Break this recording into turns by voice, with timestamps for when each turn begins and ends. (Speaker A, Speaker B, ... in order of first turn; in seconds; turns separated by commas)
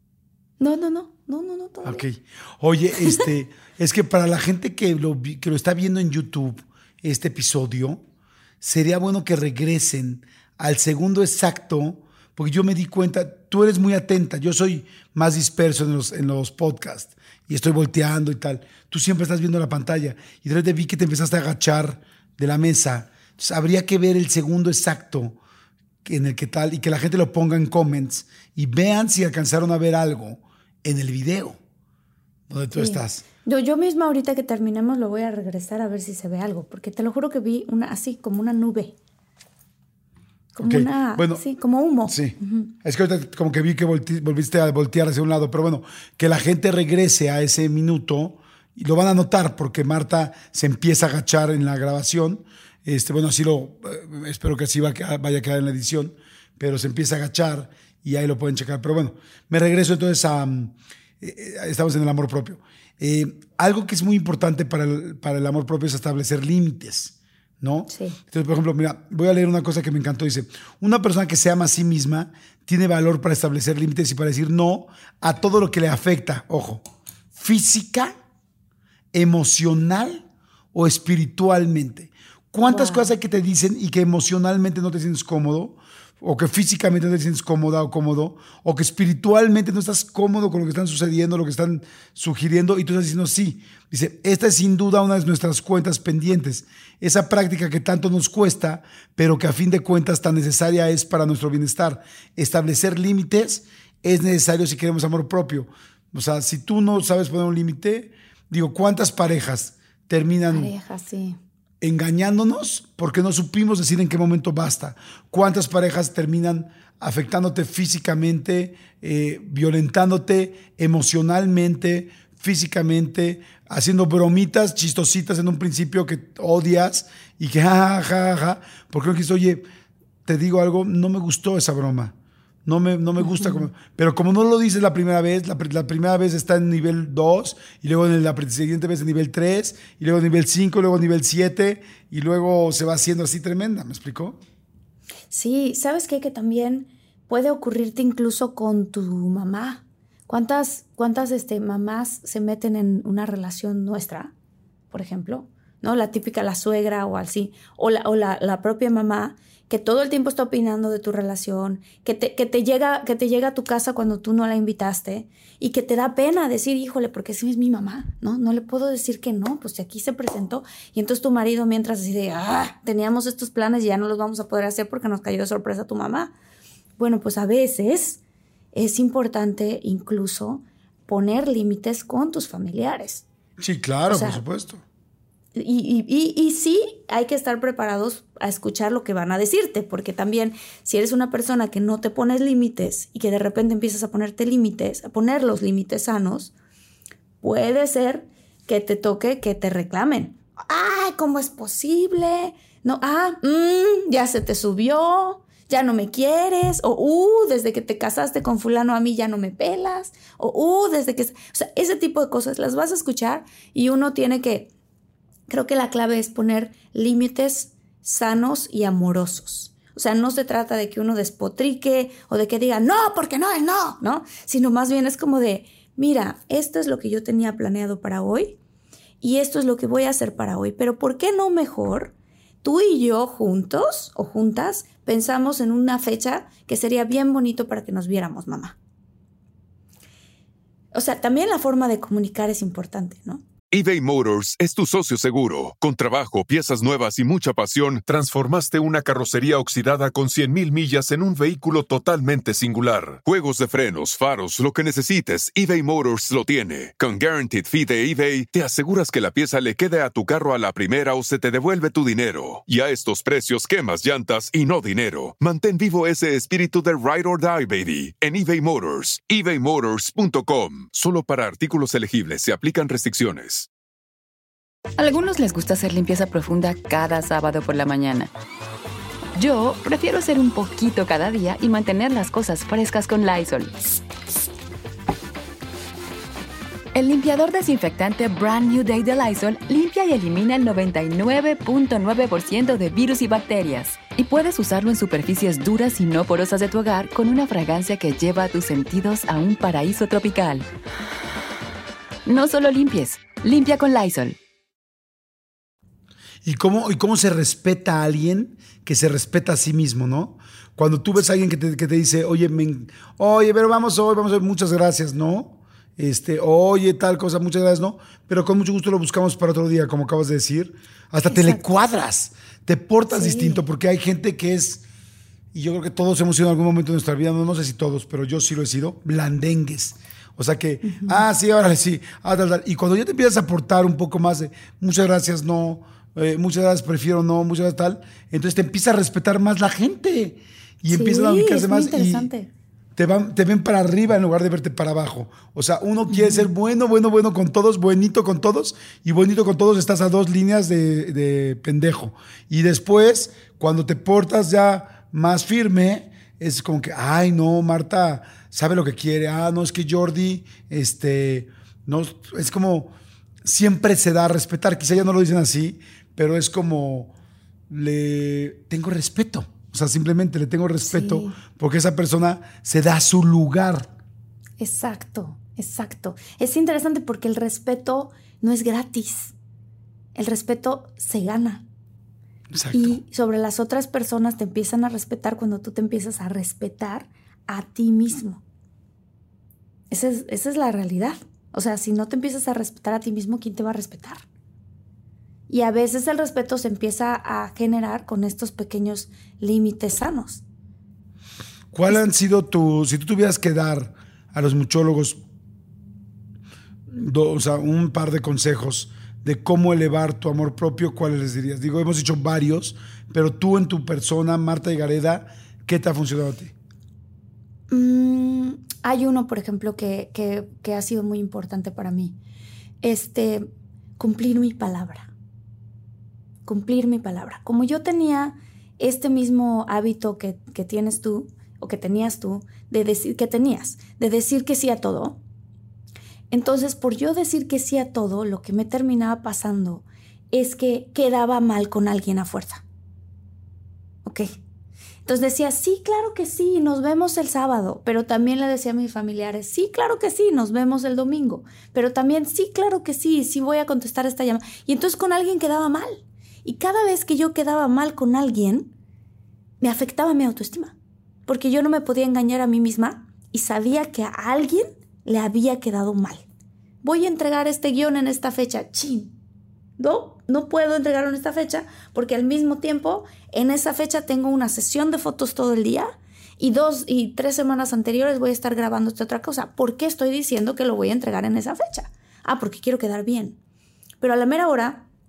Speaker A: 0.6-2.0, Speaker B: 1.8-8.0, Speaker B: 8.6-25.4, Speaker B: 26.0-31.6, Speaker B: 32.5-33.2, Speaker A: 32.7-39.0, Speaker A: 40.5-42.7, Speaker B: 40.6-41.4, Speaker B: 42.0-78.1, Speaker A: 67.9-68.2, Speaker B: 79.1-110.7, Speaker A: 82.7-83.1, Speaker A: 110.5-111.4, Speaker B: 111.8-129.7, Speaker B: 130.2-132.1, Speaker B: 132.6-144.4, Speaker A: 133.2-133.7, Speaker A: 145.3-154.3, Speaker A: 154.9-176.3, Speaker A: 177.0-178.2, Speaker A: 178.7-183.2, Speaker B: 183.6-184.8, Speaker A: 184.1-184.4, Speaker A: 185.5-196.5, Speaker A: 197.4-214.7, Speaker A: 215.5-228.6, Speaker A: 229.2-238.8, Speaker A: 240.9-243.4, Speaker C: 243.7-273.7, Speaker D: 275.0-278.3, Speaker D: 279.4-283.7, Speaker D: 286.9-300.7, Speaker D: 302.2-304.4, Speaker B: 306.4-324.8, Speaker A: 321.3-321.7, Speaker A: 323.1-323.6, Speaker B: 325.5-342.3, Speaker A: 330.8-331.2, Speaker A: 340.9-342.5, Speaker B: 342.9-367.1, Speaker A: 346.1-346.5, Speaker B: 367.7-373.9, Speaker A: 370.9-371.3, Speaker A: 374.6-379.3, Speaker A: 380.1-381.6, Speaker B: 382.5-383.0, Speaker A: 382.7-388.4, Speaker A: 389.9-394.2, Speaker A: 395.5-400.4, Speaker B: 401.7-405.2, Speaker B: 406.9-416.5, Speaker A: 417.7-422.2, Speaker A: 422.8-425.1, Speaker A: 426.4-435.2, Speaker A: 436.3-442.6, Speaker A: 444.0-444.4, Speaker A: 445.0-458.7, Speaker A: 459.6-460.7, Speaker A: 461.2-466.2, Speaker A: 466.8-469.1, Speaker A: 469.8-483.4, Speaker A: 484.0-484.9